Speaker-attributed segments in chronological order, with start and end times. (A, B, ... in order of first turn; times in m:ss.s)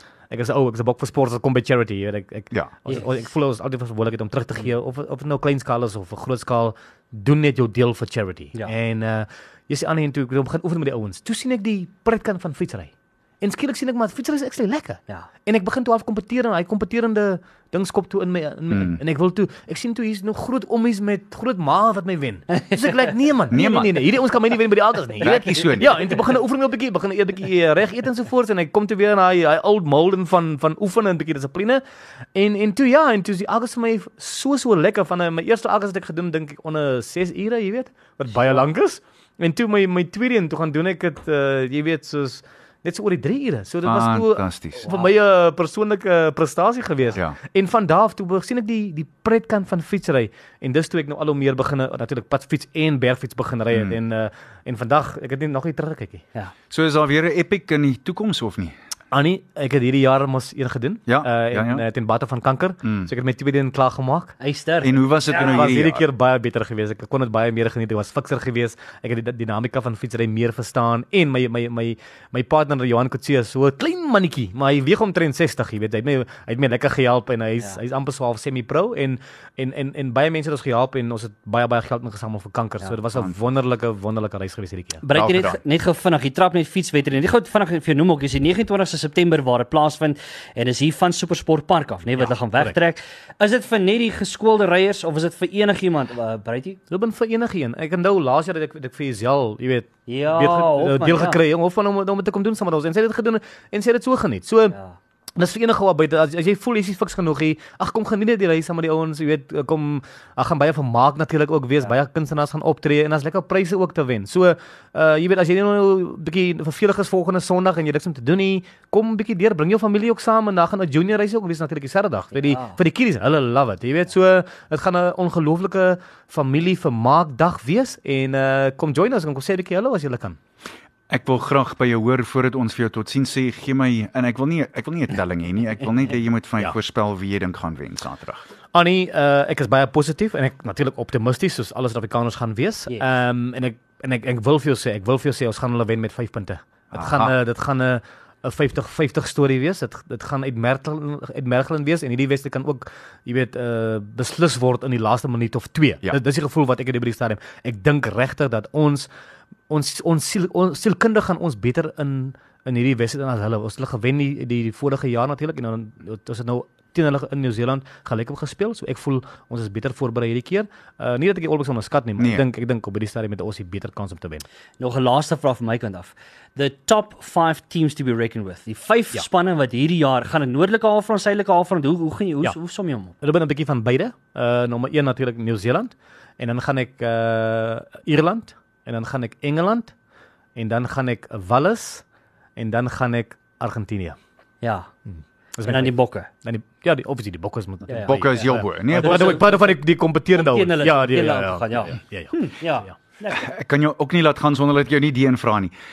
0:00.3-0:31.8 A
0:18.7-0:19.0 B
0:22.5-0:22.8 C
0:23.5-0:24.1 B
0:25.2-0:26.2 B
0:25.2-0:25.9 C
0:32.3-0:56.2 A
0:43.8-0:44.9 B
0:44.8-0:45.1 C
0:53.7-0:54.0 B
0:56.7-0:58.7 B
0:59.1-1:04.3 A
1:01.1-1:01.8 B
1:02.8-1:03.1 B
1:04.4-1:05.7 C
1:04.8-1:06.0 B
1:05.3-1:25.0 A
1:25.0-1:36.8 C
1:25.1-1:25.6 B
1:32.2-1:32.7 A
1:36.9-1:44.8 A
1:40.1-1:41.4 C
1:44.7-1:45.0 C
1:45.4-2:10.4 A
2:02.4-2:02.8 C
2:11.1-2:18.4 B
2:18.7-2:39.1 A
2:26.9-2:27.3 B
2:39.7-2:54.4 A
2:52.2-2:52.4 B
2:54.8-3:03.1 C
3:03.2-3:09.9 A
3:10.6-3:12.0 A
3:12.6-3:14.2 A
3:14.6-3:14.9 C
3:15.1-3:22.9 A
3:15.6-3:16.3 C
3:17.9-3:19.8 C
3:18.0-3:19.4 B
3:20.3-3:23.5 C
3:23.3-3:25.7 B